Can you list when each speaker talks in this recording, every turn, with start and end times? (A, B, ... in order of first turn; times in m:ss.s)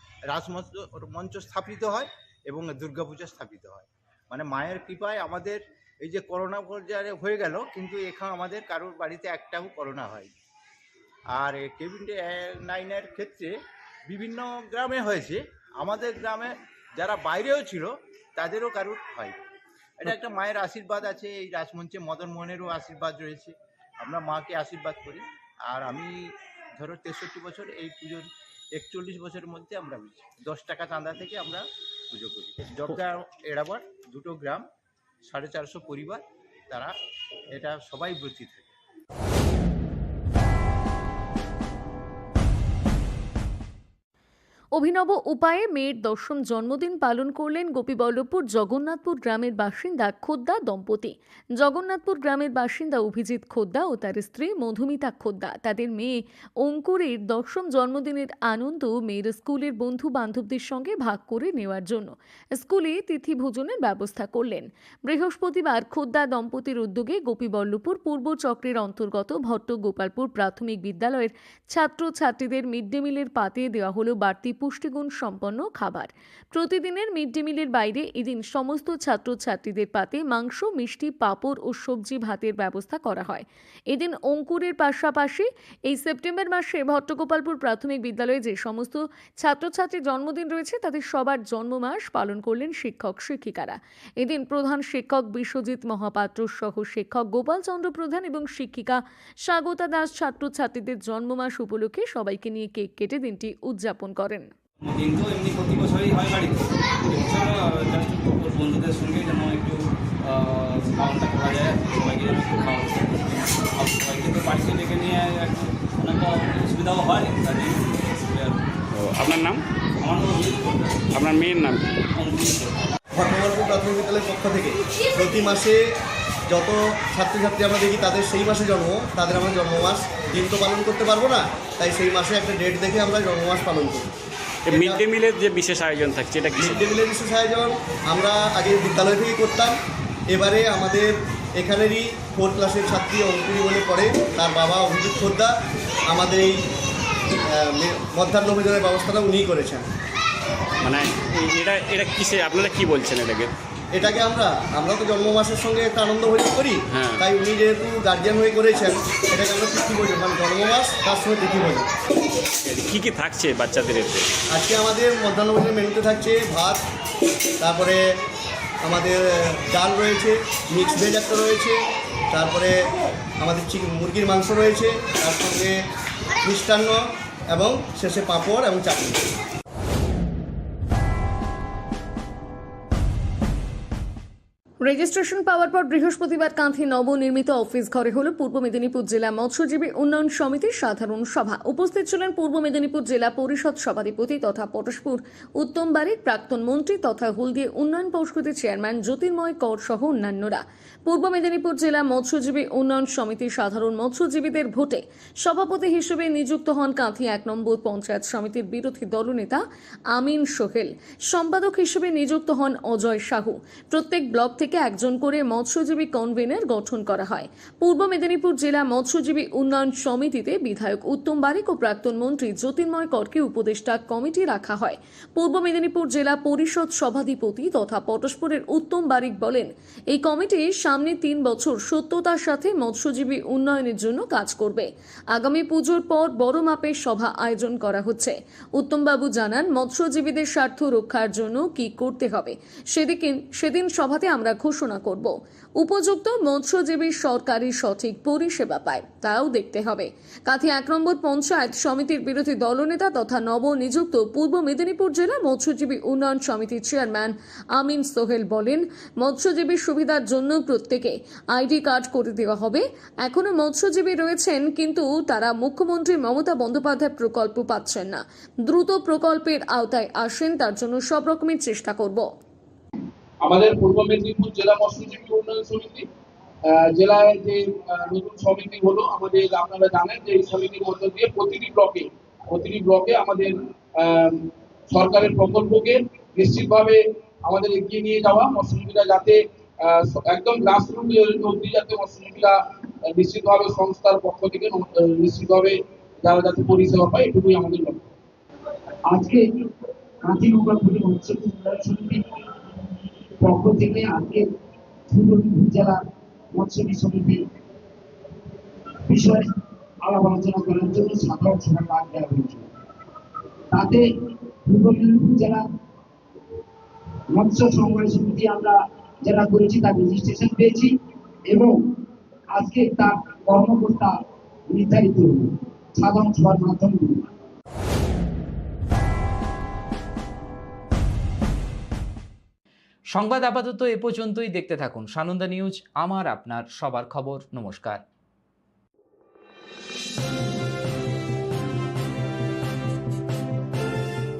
0:00.3-0:10.3 A
0:11.3-0:13.6 A
0:14.1-0:19.4 A
0:20.0-0:26.2 A
0:26.8-0:34.6 A
0:35.3-0:36.9 A
0:37.5-0:38.7 A
0:44.7-1:44.5 B
1:44.8-1:58.6 C
1:58.9-1:59.6 D
2:00.0-2:01.0 C
2:01.1-2:01.9 D
2:02.1-2:02.7 C
2:03.2-2:05.8 E
2:06.5-2:14.1 E
2:14.7-2:16.8 D
2:14.7-2:15.1 E
2:16.5-2:19.8 E
2:20.3-2:25.5 E
2:26.1-2:26.6 E
2:27.4-2:29.8 E
2:30.8-2:33.5 D
2:33.9-2:41.9 E
2:36.9-2:37.2 D
2:42.6-2:44.3 D
2:44.5-2:46.8 E
2:47.6-2:48.0 E
2:48.8-2:52.9 E
2:53.4-2:55.8 E
2:56.4-2:59.3 E
3:04.8-4:32.2 B
4:33.4-4:36.0 F
4:36.7-4:58.0 F
4:59.1-4:59.4 G
5:00.2-5:02.2 G
5:03.4-5:04.5 G
5:05.1-5:07.4 G
5:09.1-5:09.5 G
5:10.0-5:12.7 G
5:13.7-5:14.0 G
5:14.6-5:15.6 G
5:17.3-5:20.9 G
5:21.5-5:21.8 G
5:22.5-5:24.2 G
5:24.7-5:27.3 G
5:33.1-5:38.0 H